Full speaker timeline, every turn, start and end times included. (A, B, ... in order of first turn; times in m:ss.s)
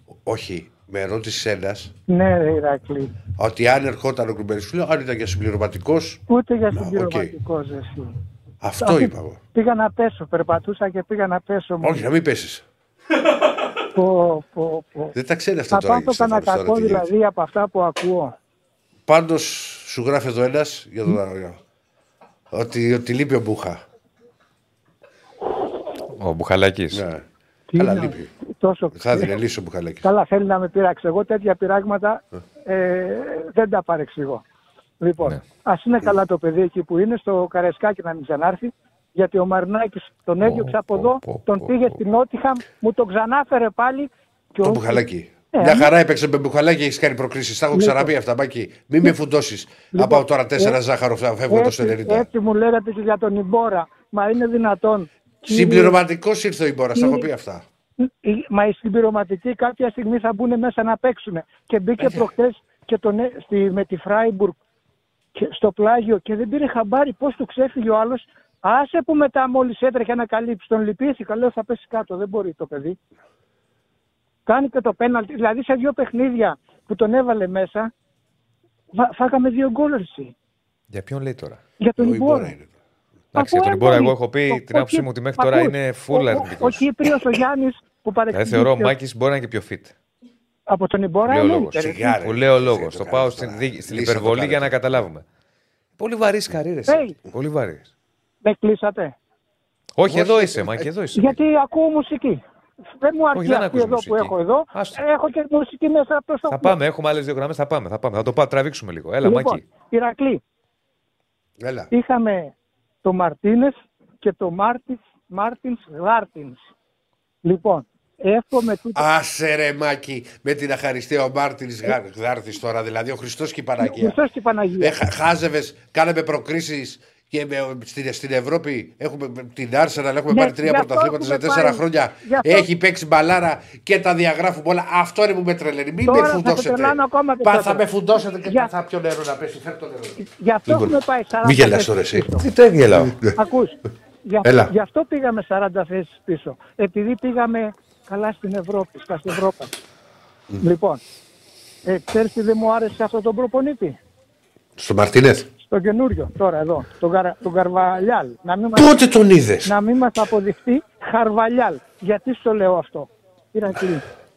0:00.1-0:01.9 A
0:02.1-0:03.1 B
0:03.4-0:07.3 A
0:06.3-0:08.2 B
0:08.6-0:09.4 A
0:08.8-0:12.0 B
0:11.8-0:12.6 A
0:13.9-0:15.1 B
0:15.1-0:17.1 A
0:15.7-0:18.3 B
0:19.1-0:21.6 A
0:22.5-0:23.8 A
0:26.2-0:27.0 C
0:26.9-0:28.3 A
0:27.7-0:29.3 B
0:28.9-0:30.1 A
0:30.0-0:34.4 B
0:35.0-0:45.9 B
0:40.4-0:42.0 C
0:44.6-0:52.3 A
0:47.7-0:48.1 B
0:49.9-0:50.8 B
0:51.5-0:56.0 B
0:55.4-0:57.6 A
0:56.9-0:57.3 B
0:58.0-1:04.6 B
1:02.0-1:02.3 A
1:05.4-1:13.0 B
1:14.5-1:17.9 B
1:18.9-1:20.3 B
1:20.9-1:21.6 C
1:21.8-1:22.6 B
1:22.0-1:22.7 A
1:23.3-1:26.9 C
1:23.4-1:29.0 B
1:28.3-1:30.0 C
1:30.7-1:32.1 B
1:31.3-1:35.2 C
1:31.7-1:34.8 A
1:36.0-1:37.9 C
1:36.9-1:37.2 B
1:38.4-1:39.2 B
1:40.0-1:41.4 C
1:40.1-1:40.9 A
1:41.2-1:42.4 B
1:42.9-1:46.8 B
1:43.3-1:45.0 C
1:46.5-1:49.6 C
1:49.2-1:50.4 B
1:51.6-1:51.9 A
1:51.9-1:56.6 B
1:57.4-1:59.0 B
1:59.0-2:04.2 A
2:03.8-2:05.0 B
2:04.8-2:22.3 A
2:10.3-2:12.7 B
2:16.0-2:17.8 B
2:18.4-2:18.7 B
2:20.2-2:22.5 B
2:22.3-2:23.2 C
2:22.9-2:23.4 A
2:23.4-2:29.7 B
2:24.4-2:24.7 A
2:30.6-2:31.0 B
2:31.8-2:34.0 B
2:34.8-2:35.5 A
2:35.6-2:39.0 B
2:38.7-2:39.7 A
2:39.6-2:44.1 B